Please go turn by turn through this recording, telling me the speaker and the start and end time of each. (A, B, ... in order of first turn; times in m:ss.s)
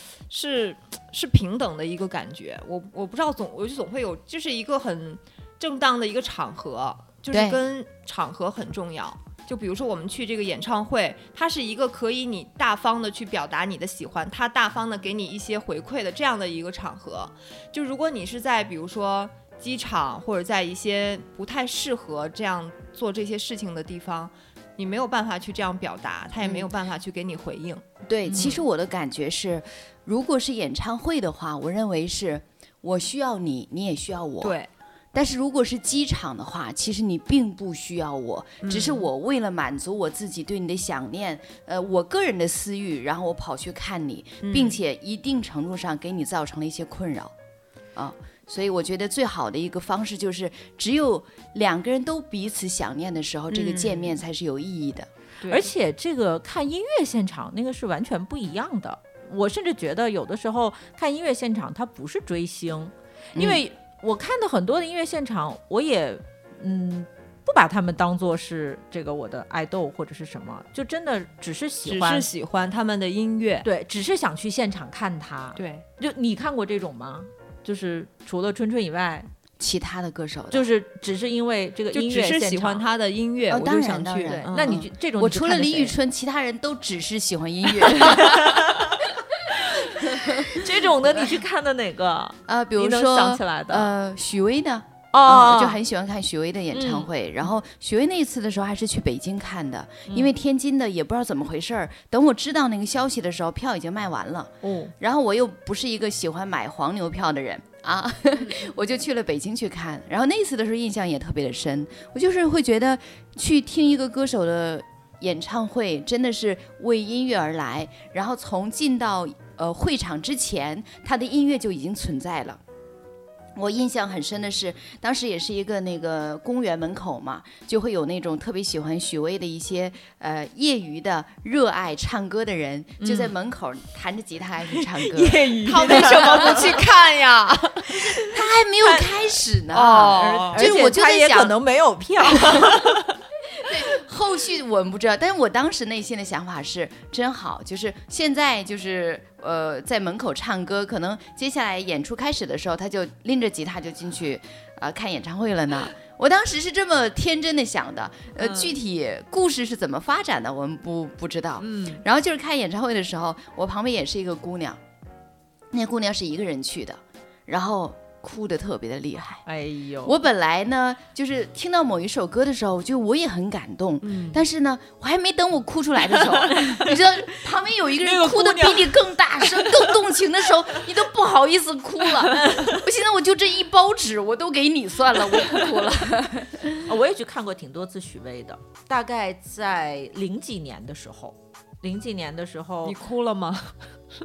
0:00.3-0:27.8 A
0:07.3-0:07.6 B
0:26.4-0:26.7 B
0:28.0-0:34.6 B
0:28.3-0:28.6 C
0:34.4-0:34.7 A
0:35.1-0:47.3 B
0:38.6-0:39.1 A
0:44.4-0:44.8 A
0:47.9-0:55.1 B
0:53.5-0:54.2 A
0:55.4-0:55.7 A
0:55.5-1:12.3 C
1:03.3-1:03.6 B
1:11.8-1:13.6 A
1:13.6-1:19.3 C
1:15.6-1:15.8 A
1:19.6-1:20.6 B
1:20.5-1:22.8 C
1:21.9-1:24.8 A
1:23.5-1:28.7 B
1:24.4-1:26.0 C
1:28.0-1:29.1 C
1:29.7-1:33.9 C
1:30.0-1:31.3 B
1:32.5-2:02.6 B
1:35.1-1:35.8 C
1:36.7-1:37.1 C
1:44.6-1:44.9 C
2:03.5-2:16.8 B
2:13.0-2:13.3 C
2:15.0-2:16.7 C
2:15.6-2:18.0 A
2:18.2-2:21.6 B
2:18.8-2:19.1 C
2:19.7-2:20.7 A
2:20.2-2:23.0 C
2:22.4-2:22.7 B
2:23.6-2:44.8 B
2:41.6-2:42.0 C
2:45.7-2:49.4 B
2:49.4-2:50.2 C
2:50.0-3:06.8 B
2:54.0-2:54.4 A
2:56.3-2:57.0 C
2:57.9-2:59.9 C
3:02.3-3:02.8 C
3:06.8-3:13.0 C
3:12.8-3:13.8 A